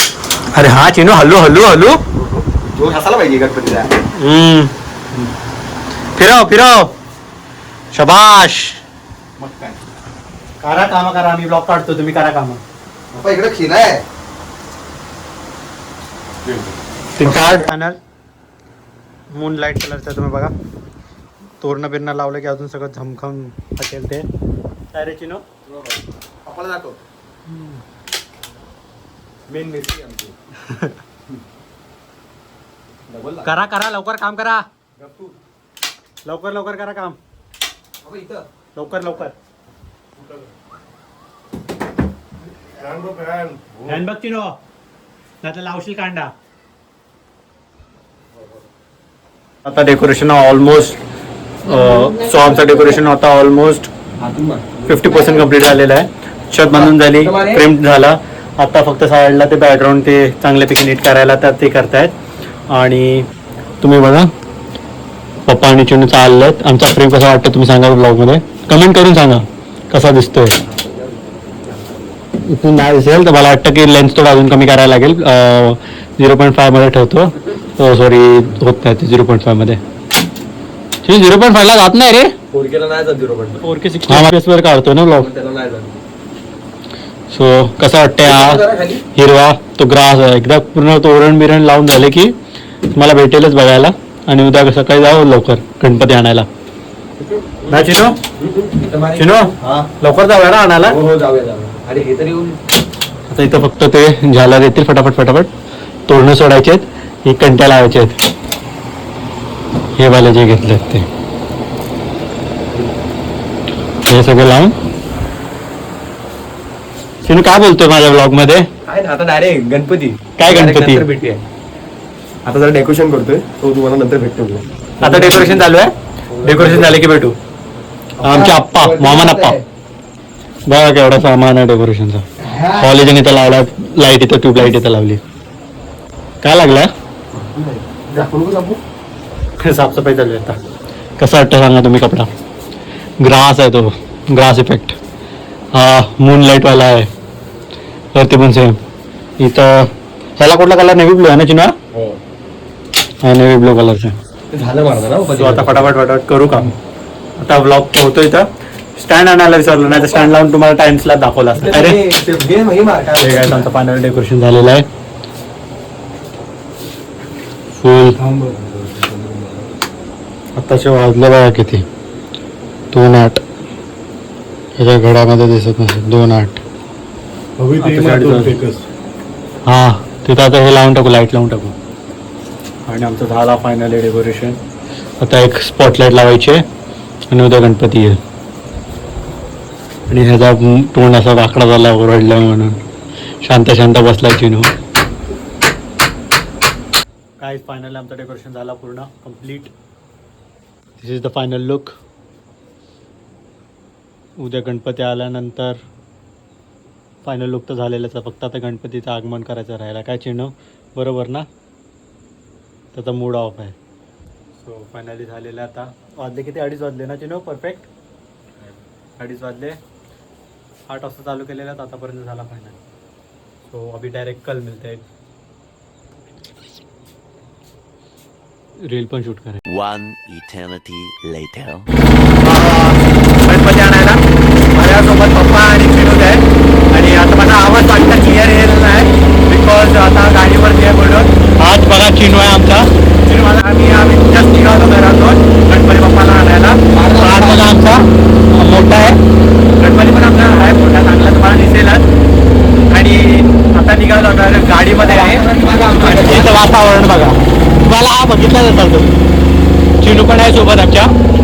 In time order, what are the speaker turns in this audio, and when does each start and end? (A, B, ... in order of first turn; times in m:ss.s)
0:00.5-0:02.0 A
0:02.1-0:03.9 B
0:04.2-0:04.7 A
0:06.2-0:06.9 A
0:07.9-0:08.8 A
0:09.4-0:09.8 B
0:10.6-0:12.6 A
0:13.1-0:14.0 B
0:17.2-0:18.0 A
0:19.3-0:20.5 A
0:21.6-0:24.2 A
0:24.9-0:25.4 A
0:26.4-0:27.0 B
0:29.5-0:30.3 B
0:33.1-0:33.5 B
0:33.4-0:34.6 A
0:35.0-0:35.3 B
0:36.2-0:37.2 A
0:38.0-0:38.4 B
0:38.7-0:39.3 A
0:42.9-0:43.7 B
0:43.8-0:44.6 A
0:45.4-0:46.3 A
0:49.6-0:51.0 A
0:51.6-0:53.9 A
0:54.2-0:55.1 B
0:54.9-1:02.1 A
0:56.7-0:57.6 B
1:02.7-1:03.2 A
1:03.8-1:04.3 A
1:05.5-1:10.6 A
1:12.4-1:19.8 A
1:21.0-1:22.3 A
1:22.5-1:23.6 B
1:23.6-1:25.3 A
1:25.1-1:26.0 B
1:27.3-1:28.6 A
1:28.2-1:29.0 B
1:29.1-1:32.3 A
1:32.9-1:36.5 A
1:37.2-1:39.9 B
1:37.7-1:38.2 A
1:39.2-1:41.0 A
1:40.8-1:42.6 B
1:43.3-1:45.5 A
1:46.1-1:48.2 A
1:50.0-1:51.0 A
1:54.1-1:54.7 A
1:57.2-1:58.6 A
1:58.8-2:01.4 B
2:00.4-2:01.0 A
2:02.4-2:05.6 B
2:05.0-2:07.4 A
2:06.3-2:07.0 B
2:08.2-2:09.6 B
2:08.2-2:09.6 A
2:10.7-2:12.2 A
2:12.4-2:12.9 B
2:12.8-2:15.2 A
2:16.4-2:16.9 A
2:17.3-2:18.8 B
2:19.6-2:20.6 A
2:21.2-2:22.3 A
2:23.2-2:25.0 A
2:25.7-2:27.1 A
2:28.1-2:28.8 A
2:29.4-2:31.7 A
2:31.9-2:32.2 B
2:33.2-2:34.1 A
2:34.5-2:36.7 B
2:35.3-2:36.7 A
2:37.4-2:42.0 A
2:39.6-2:40.4 B
2:41.5-2:43.7 B
2:43.2-2:44.8 A
2:47.8-2:48.2 A
2:48.0-2:49.7 B
2:50.6-2:51.8 A
2:52.9-2:53.4 A
2:54.8-2:56.6 A
2:57.6-2:58.8 B
2:57.8-2:58.6 A
2:59.6-3:01.7 A
3:02.9-3:04.6 A
3:05.2-3:06.6 A
3:07.3-3:08.2 A
3:10.1-3:12.8 A
3:13.4-3:14.7 A
3:17.4-3:19.7 A
3:21.0-3:21.9 A
3:24.4-3:25.8 A
3:27.2-3:31.4 A
3:32.9-3:33.8 A
3:34.6-3:37.9 A
3:39.2-3:39.8 A
3:40.9-3:42.8 A
3:43.7-3:45.0 A
3:48.8-3:49.6 A
3:49.7-3:51.9 C
3:52.4-3:54.2 A
3:54.7-4:09.2 A
4:06.9-4:07.7 B
4:09.8-4:12.0 A
4:12.9-4:19.1 A
4:15.0-4:16.5 B
4:20.0-4:21.1 A